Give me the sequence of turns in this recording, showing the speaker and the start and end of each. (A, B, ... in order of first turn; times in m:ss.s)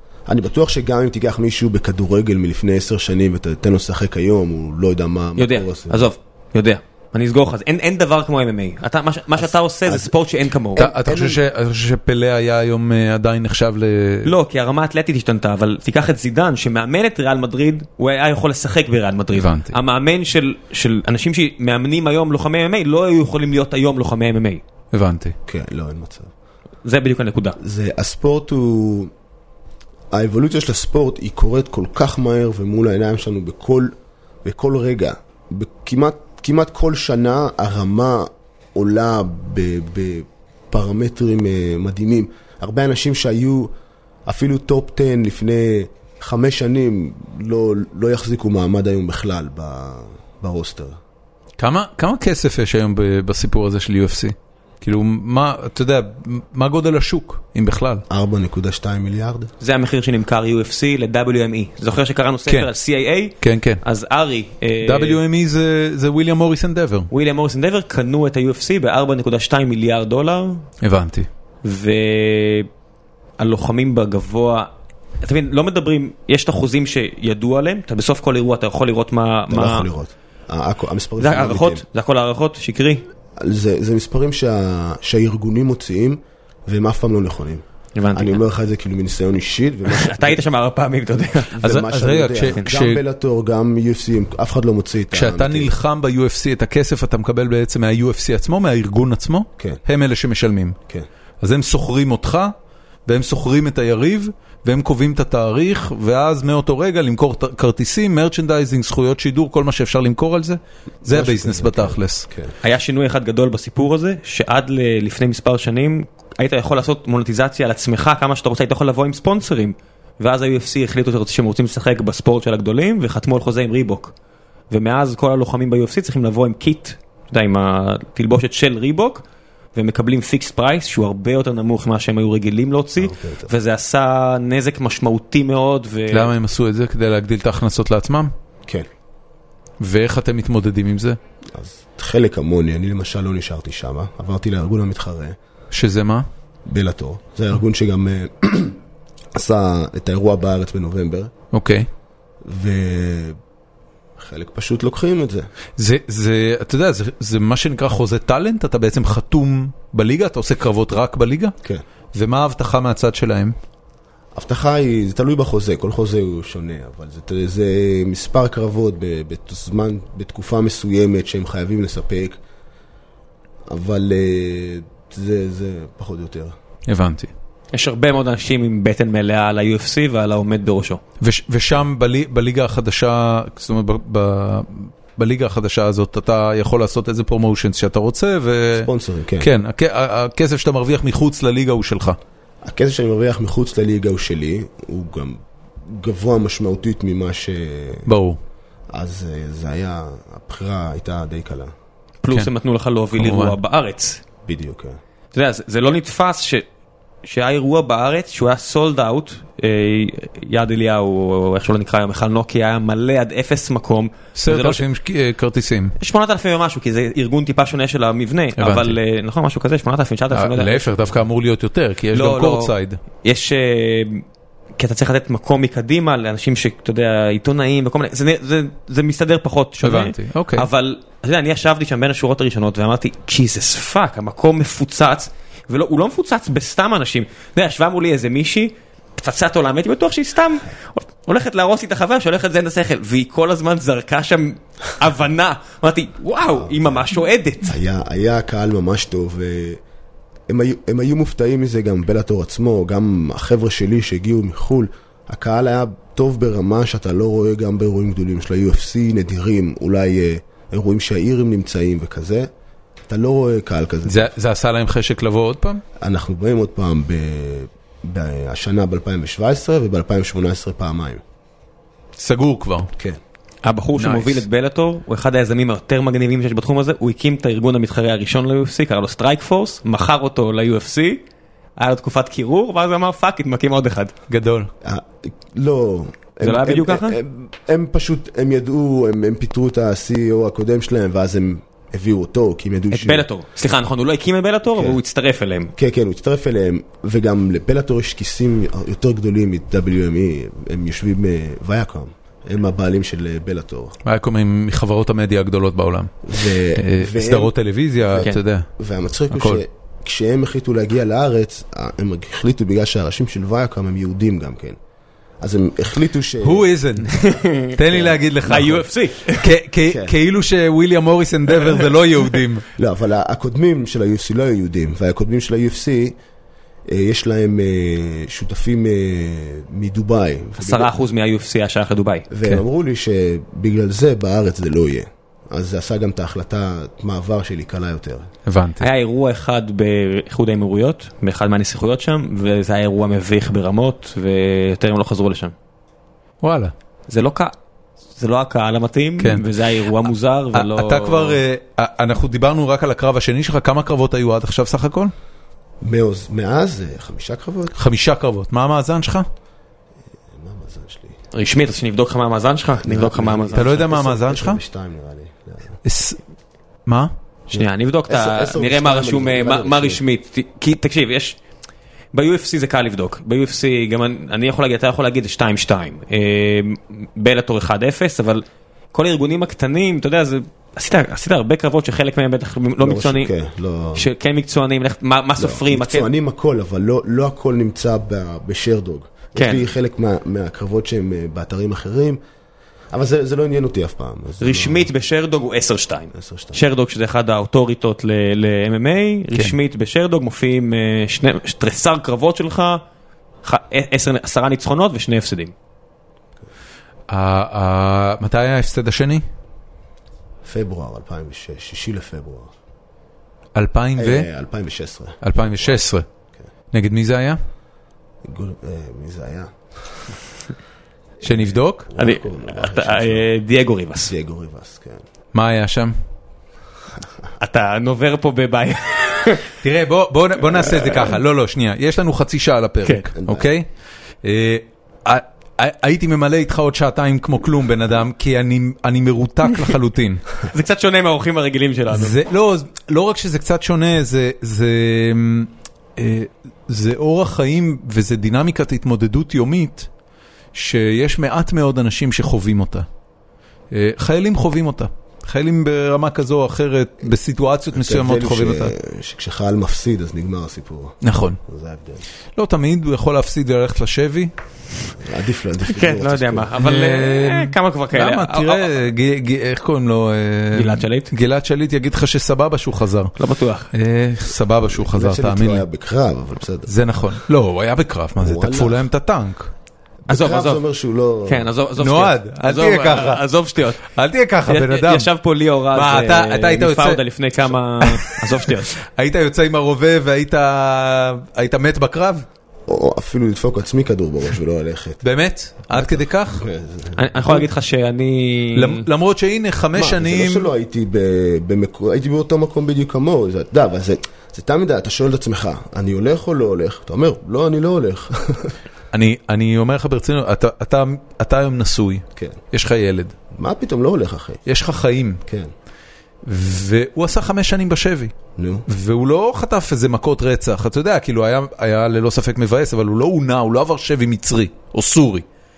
0:00.3-0:06.1 A
0:05.4-0:10.9 B
0:09.4-0:10.1 A
0:10.8-0:11.4 A
0:10.8-0:14.3 C
0:14.2-0:24.6 B
0:19.3-0:19.8 C
0:24.9-0:25.4 C
0:25.5-0:26.3 A
0:26.8-0:27.6 B
0:27.6-0:29.1 A
0:30.1-0:43.7 A
0:44.3-0:51.0 A
0:51.6-0:58.0 C
0:58.1-0:59.5 A
0:59.6-1:05.2 B
1:03.4-1:03.8 C
1:04.8-1:07.1 C
1:07.1-1:10.7 B
1:10.8-1:11.3 C
1:11.6-1:12.7 B
1:13.4-1:14.7 B
1:15.2-1:19.9 B
1:19.5-1:21.8 A
1:21.2-1:23.1 B
1:23.4-1:30.4 A
1:28.0-1:28.4 B
1:29.9-1:31.6 B
1:31.5-1:35.7 A
1:31.6-1:33.0 C
1:35.1-1:40.8 C
1:41.4-1:42.5 C
1:43.1-1:52.3 C
1:51.0-1:52.5 A
1:52.6-2:04.1 B
2:04.7-2:09.2 B
2:09.8-2:16.3 B
2:13.0-2:13.5 A
2:16.1-2:18.3 C
2:19.8-2:21.2 C
2:21.5-2:25.4 A
2:25.7-2:26.3 C
2:26.7-2:28.8 A
2:29.4-2:31.3 A
2:31.5-2:31.9 C
2:32.4-2:33.4 A
2:34.2-2:35.5 A
2:35.8-2:41.6 C
2:42.1-2:43.6 C
2:44.4-2:52.4 A
2:53.7-2:56.5 A
2:56.9-2:57.3 C
2:57.7-3:01.0 B
3:01.2-3:08.9 C
3:08.8-3:09.5 A
3:09.4-3:12.2 C
3:12.6-3:18.1 A
3:18.1-3:18.4 C
3:18.9-3:21.7 A
3:22.2-3:24.2 B
3:23.1-3:23.6 C
3:24.4-3:25.0 A
3:25.3-3:26.7 B
3:27.2-3:34.8 B
3:34.4-3:36.0 C
3:36.0-3:40.9 B
3:38.6-3:39.0 C
3:40.3-3:43.0 C
3:42.1-3:44.2 B
3:44.8-4:07.8 B
3:49.8-3:50.7 C
4:06.6-4:07.1 A
4:07.7-4:09.8 A
4:10.5-4:22.5 A
4:23.1-4:24.3 A
4:24.1-4:25.8 C
4:26.0-4:31.2 A
4:32.2-4:32.9 C
4:33.6-4:41.2 B
4:34.0-4:34.4 C
4:41.8-4:44.1 B
4:44.3-4:44.7 C
4:44.8-4:53.3 A
4:46.4-4:47.2 B
4:52.9-4:55.7 B
4:54.7-4:55.0 A
4:55.8-5:04.0 A
5:04.0-5:08.7 C
5:06.2-5:14.8 A
5:09.3-5:09.6 C
5:15.4-5:16.7 A
5:16.4-5:17.2 C
5:17.1-5:19.5 B
5:17.7-5:22.7 C
5:19.9-5:20.2 A
5:22.8-5:26.2 A
5:26.9-5:30.9 A
5:30.6-5:32.3 B
5:32.3-5:38.3 A
5:38.5-5:38.9 C
5:38.8-5:45.5 B
5:46.4-5:46.7 C
5:47.1-5:47.5 B
5:48.2-5:51.4 B
5:49.2-5:49.5 C
5:50.5-5:55.1 C
5:55.8-5:57.8 A
5:57.8-5:59.3 C
6:00.3-6:01.2 A
6:01.3-6:03.8 B
6:02.8-6:05.8 A
6:03.6-6:04.6 C
6:05.8-6:06.2 C
6:06.9-6:07.1 C
6:07.5-6:11.4 B
6:07.5-6:10.0 A
6:12.1-6:23.3 B
6:22.8-6:24.1 A
6:24.0-6:26.1 B
6:25.4-6:32.2 A
6:29.4-6:29.7 B
6:32.9-6:34.9 A
6:34.4-6:42.8 B
6:36.1-6:36.6 A
6:43.4-6:45.5 B
6:47.1-6:49.2 C
6:50.4-6:52.5 A
6:53.6-6:54.3 C
6:54.0-6:55.8 A
6:55.2-6:56.0 C
6:56.7-6:57.4 C
6:58.2-7:00.2 A
7:01.2-7:01.9 C
7:01.3-7:03.3 A
7:02.0-7:04.1 B
7:04.0-7:05.0 A
7:05.3-7:06.0 C
7:07.4-7:09.5 B
7:09.6-7:13.7 C
7:13.2-7:13.5 A
7:14.2-7:20.3 C
7:20.4-7:22.2 B
7:21.9-7:29.9 C
7:30.5-7:32.9 C
7:33.7-7:38.7 C
7:37.7-7:42.0 A
7:41.0-7:41.4 C
7:42.4-7:44.3 C
7:45.0-7:46.5 A
7:45.7-7:48.8 B
7:46.6-7:53.1 C
7:50.5-7:51.1 B
7:53.2-7:53.7 B
7:53.7-7:55.6 C
7:54.6-7:56.7 A
7:56.7-7:59.5 C
7:58.2-7:58.9 A
8:00.1-8:01.5 A
8:00.1-8:00.6 B
8:01.3-8:03.9 B
8:01.8-8:03.2 C
8:03.8-8:05.1 C
8:04.5-8:08.7 B
8:05.7-8:07.0 C
8:07.8-8:12.3 C
8:12.7-8:15.0 A
8:15.0-8:16.4 C
8:15.7-8:17.4 A
8:17.0-8:18.9 B
8:18.5-8:20.5 C
8:19.8-8:28.6 A
8:28.9-8:33.2 C
8:33.3-8:34.4 A
8:34.5-8:35.2 C
8:35.3-8:35.5 A
8:36.2-8:38.1 C
8:38.4-8:38.7 A
8:38.7-8:45.2 C